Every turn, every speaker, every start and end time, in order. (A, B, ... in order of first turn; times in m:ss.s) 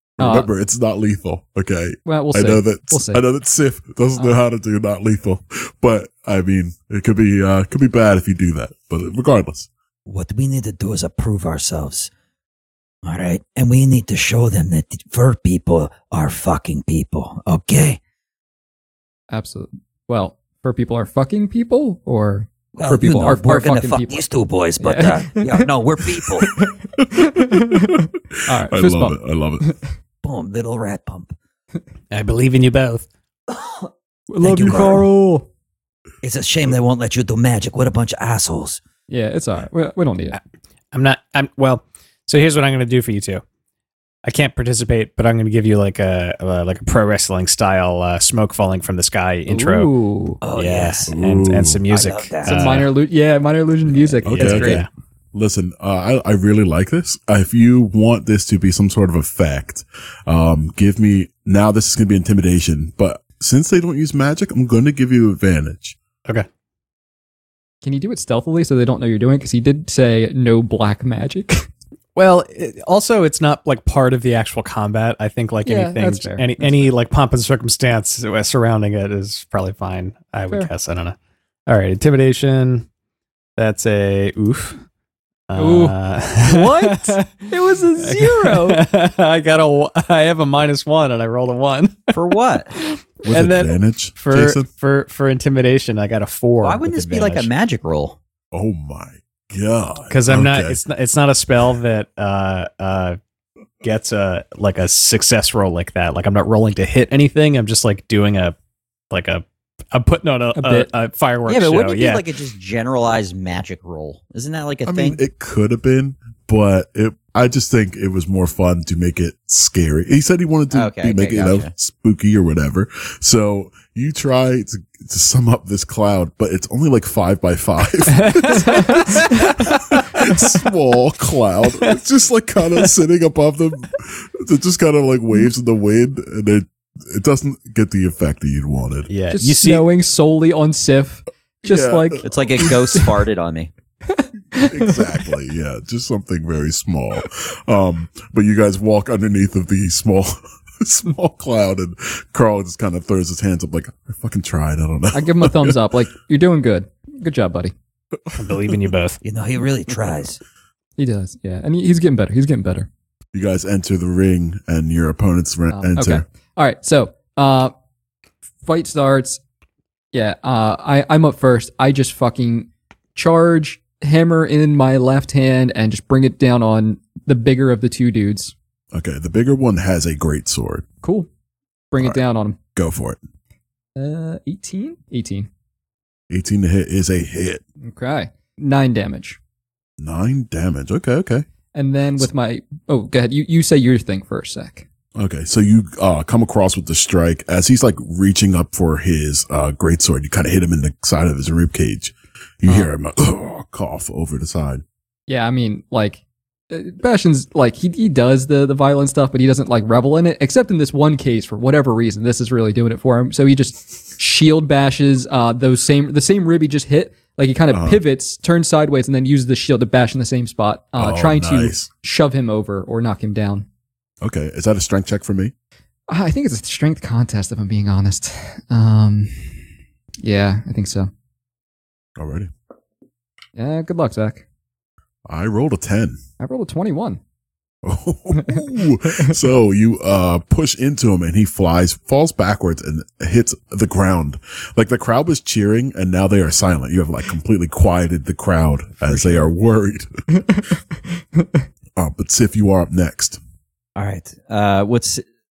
0:00.2-0:09.7 A
0:00.2-0:00.5 B
0:02.0-0:03.2 B
0:10.1-0:12.1 C
0:13.0-0:18.0 C
0:19.3-0:24.2 B
0:22.7-0:26.5 C
0:24.8-0:25.7 B
0:26.4-0:29.8 B
0:27.0-0:29.6 A
0:30.2-0:31.4 C
0:32.1-0:33.1 D
0:33.5-0:35.1 C
0:34.3-0:35.5 B
0:36.2-0:38.8 C
0:39.1-0:40.4 B
0:40.9-0:43.4 D
0:44.2-0:49.9 D
0:49.5-0:50.4 B
0:50.4-0:51.1 C
0:50.5-0:52.9 D
0:51.1-0:51.8 A
0:51.9-0:52.8 C
0:52.4-0:54.8 B
0:54.2-0:54.8 A
0:54.2-0:54.9 D
0:55.3-1:06.0 A
1:07.8-1:11.7 B
1:12.2-1:21.2 D
1:15.6-1:16.9 B
1:21.7-1:22.9 D
1:23.6-1:24.8 D
1:25.5-1:27.3 D
1:25.6-1:28.8 B
1:28.0-1:37.5 D
1:32.1-1:32.7 E
1:33.2-1:34.7 A
1:36.6-1:38.2 E
1:38.5-1:40.8 A
1:40.1-1:43.2 D
1:43.8-1:48.5 D
1:49.1-1:52.2 D
1:50.5-1:50.9 B
1:51.5-1:55.2 E
1:54.8-2:19.1 A
2:00.7-2:01.7 E
2:08.2-2:10.0 D
2:19.1-2:19.8 D
2:19.3-2:23.0 B
2:21.6-2:22.9 A
2:22.2-2:23.7 E
2:24.1-2:25.0 B
2:24.5-2:35.8 A
2:35.1-2:37.7 B
2:38.1-2:38.8 A
2:38.3-2:39.2 D
2:39.2-2:40.4 C
2:41.0-2:42.9 B
2:43.3-2:46.2 A
2:45.7-2:47.7 B
2:48.6-2:49.4 B
2:50.1-2:58.5 B
2:58.9-3:00.8 A
3:01.0-3:01.3 B
3:01.9-3:02.6 B
3:02.8-3:03.2 A
3:04.0-3:05.5 B
3:06.3-3:07.6 A
3:07.8-3:09.4 B
3:10.0-3:11.4 A
3:11.7-3:14.8 B
3:15.2-3:24.8 A
3:25.3-3:43.6 B
3:37.7-3:38.0 A
3:41.0-3:41.9 A
3:44.2-3:45.5 A
3:46.1-3:49.6 B
3:50.2-3:51.1 B
3:52.2-3:52.5 A
3:53.5-3:54.4 B
3:55.3-3:56.2 A
3:56.4-3:57.2 B
3:57.8-4:10.1 A
3:58.3-3:59.3 B
4:09.1-4:09.5 E
4:10.4-4:11.6 B
4:12.0-4:13.4 A
4:14.0-4:15.2 E